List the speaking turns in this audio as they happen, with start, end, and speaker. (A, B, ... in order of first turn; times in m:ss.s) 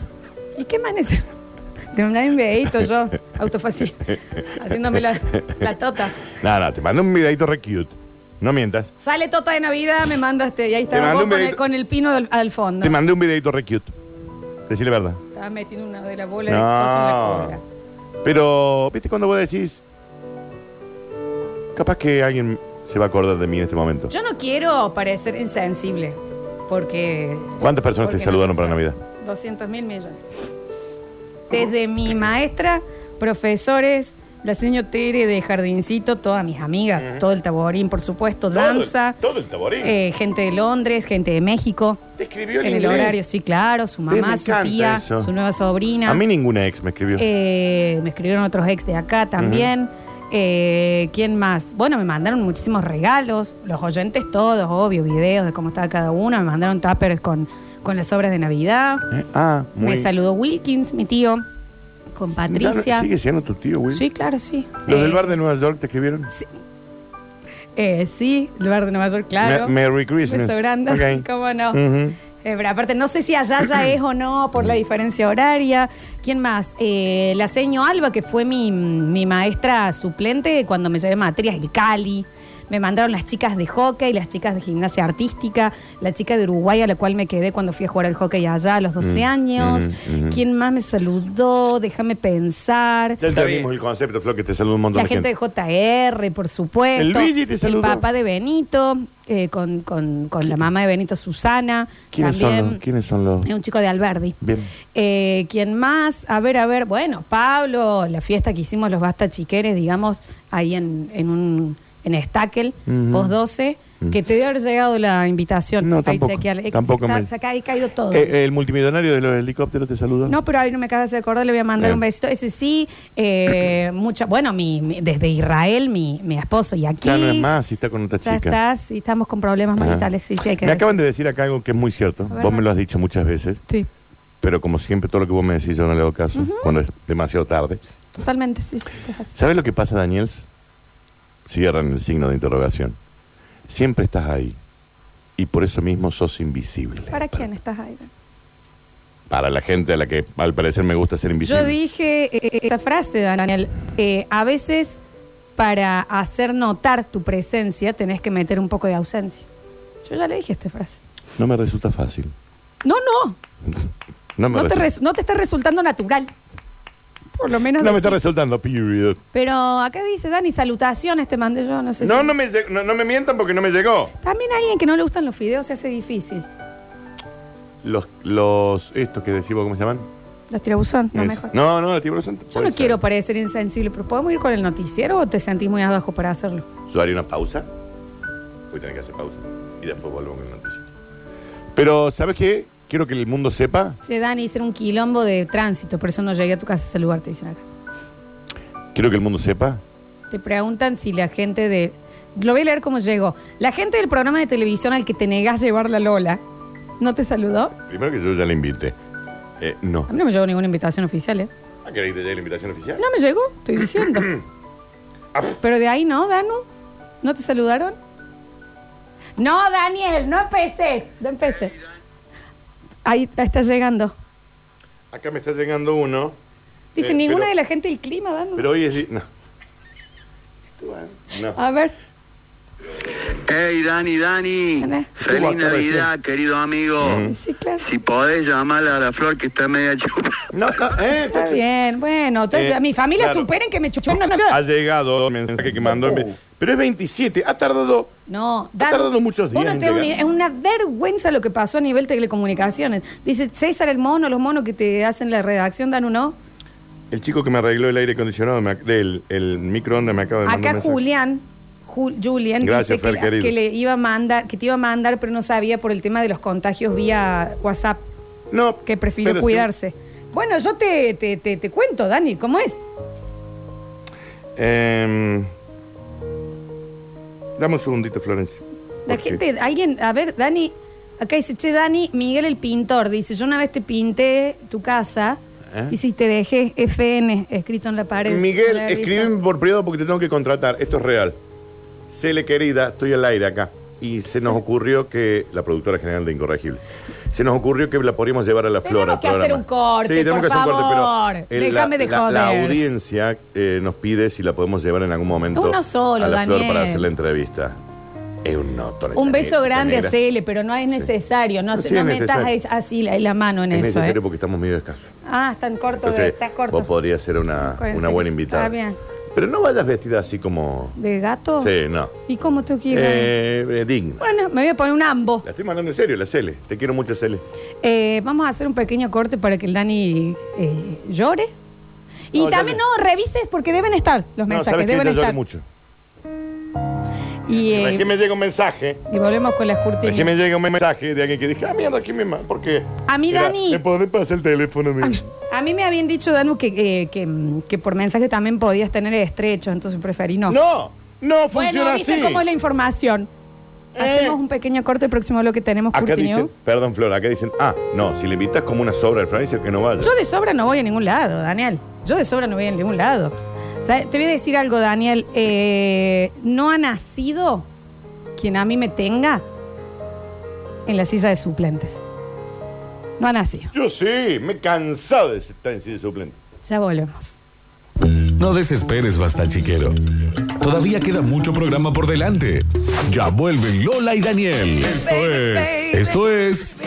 0:00.6-0:01.2 A
0:01.9-0:06.2 A
0:05.3-0:05.6 B
0:06.3-0:08.9 B
0:09.0-0:13.0 A
0:10.9-0:11.6 B
0:12.8-0:13.9 B
0:14.7-0:15.2 B
0:15.3-0:17.6 A
0:16.5-0:17.6 B
0:18.2-0:19.8 B
0:21.7-0:24.1 B
0:24.1-0:30.2 A
0:27.6-0:29.0 B
0:31.5-0:39.2 A
0:37.0-0:37.2 B
0:38.5-0:40.0 B
0:39.8-0:42.0 A
0:42.2-0:43.2 B
0:42.6-0:46.2 A
0:44.1-0:45.3 B
0:46.0-0:47.2 B
0:47.2-0:59.1 A
0:49.4-0:49.7 B
0:59.1-1:00.1 B
0:59.8-1:01.4 A
1:02.1-1:03.1 A
1:02.3-1:04.0 B
1:03.9-1:05.3 A
1:04.8-1:06.3 B
1:07.8-1:09.7 A
1:09.4-1:12.2 B
1:10.2-1:33.2 A
1:29.0-1:30.4 B
1:33.2-1:35.3 B
1:34.9-1:42.8 A
1:37.0-1:38.0 B
1:42.1-1:43.5 B
1:43.4-1:44.4 A
1:44.4-1:44.7 B
1:44.9-1:58.3 A
1:52.9-1:53.3 B
1:55.8-1:57.3 B
1:58.1-2:00.4 B
2:00.3-2:07.5 A
2:07.0-2:08.6 B
2:08.2-2:10.9 A
2:09.8-2:10.1 B
2:10.6-2:13.6 B
2:12.3-2:12.6 A
2:14.4-2:17.8 B
2:16.3-2:16.7 A
2:18.2-2:19.4 A
2:19.3-2:20.4 B
2:21.4-2:23.0 B
2:23.7-2:24.6 B
2:25.4-2:27.4 B
2:27.1-2:28.1 A
2:29.3-2:31.8 B
2:31.4-2:35.0 A
2:35.6-2:39.4 A
2:40.0-2:41.0 A
2:41.4-2:42.3 B
2:42.8-2:43.4 A
2:44.4-2:44.9 B
2:44.5-2:46.3 A
2:47.4-2:48.2 A
2:47.8-2:49.2 B
2:49.3-2:52.3 A
2:52.0-2:54.1 B
2:54.2-2:56.4 A
2:57.8-3:00.0 B
3:00.5-3:01.5 A
3:01.1-3:03.0 B
3:02.5-3:06.6 A
3:06.9-3:07.7 B
3:08.7-3:10.9 B
3:11.7-3:14.0 B
3:14.0-3:17.6 A
3:18.9-3:19.8 B
3:20.3-3:26.4 A
3:27.0-3:27.7 A
3:27.9-3:29.0 B
3:29.6-3:30.1 B
3:30.1-3:31.5 A
3:31.8-3:33.0 B
3:33.0-3:34.3 A
3:34.1-3:34.4 B
3:35.6-3:36.6 A
3:37.2-3:38.0 A
3:39.4-3:41.7 A
3:43.0-3:44.1 A
3:45.1-3:46.4 B
3:46.9-3:48.7 A
3:47.0-3:47.5 B
3:48.6-3:49.2 B
3:50.8-3:51.6 B
3:51.5-3:51.9 A
3:53.5-3:57.2 C
3:54.8-3:55.1 A
3:55.2-3:56.1 B
3:57.0-3:57.3 B
3:57.2-3:57.8 A
3:57.8-4:00.4 C
4:00.5-4:01.6 B
4:01.3-4:04.6 A
4:02.5-4:03.5 B
4:04.5-4:08.1 B
4:08.3-4:16.4 A
4:08.8-4:10.1 B
4:17.1-4:21.0 B
4:20.4-4:28.0 A
4:22.6-4:23.5 B
4:28.5-4:29.7 B
4:28.8-4:32.8 A
4:34.6-4:35.5 B
4:37.6-4:39.4 B
4:39.1-4:45.4 A
4:45.9-4:49.3 A
4:48.3-4:51.4 B
4:52.1-5:07.8 B
4:58.8-5:02.9 A
5:05.5-5:07.1 A
5:08.4-5:10.2 B
5:09.1-5:14.2 A
5:11.7-5:12.5 B
5:13.7-5:15.1 B
5:15.2-5:16.9 A
5:16.0-5:18.7 B
5:17.6-5:19.0 A
5:19.3-5:21.0 B
5:20.9-5:21.7 A
5:21.6-5:22.2 B
5:22.2-5:23.3 A
5:22.9-5:24.2 B
5:24.2-5:25.4 A
5:25.4-5:27.4 B
5:27.8-5:31.5 A
5:32.3-5:35.4 A
5:32.3-5:32.8 B
5:34.5-5:35.6 B
5:37.5-5:38.1 A
5:37.6-5:39.0 B
5:39.1-5:40.3 A
5:40.0-5:45.2 B
5:43.1-5:43.8 A
5:45.0-5:50.6 A
5:50.5-5:52.4 B
5:51.5-5:53.3 A
5:54.0-5:54.4 B
5:54.0-5:56.5 A
5:55.9-6:00.1 B
6:00.0-6:07.6 A
6:08.4-6:09.4 A
6:10.8-6:12.0 A
6:13.2-6:13.7 A
6:13.7-6:16.4 B
6:16.6-6:17.4 A
6:18.4-6:20.0 D
6:20.6-6:26.8 D
6:25.0-6:26.1 A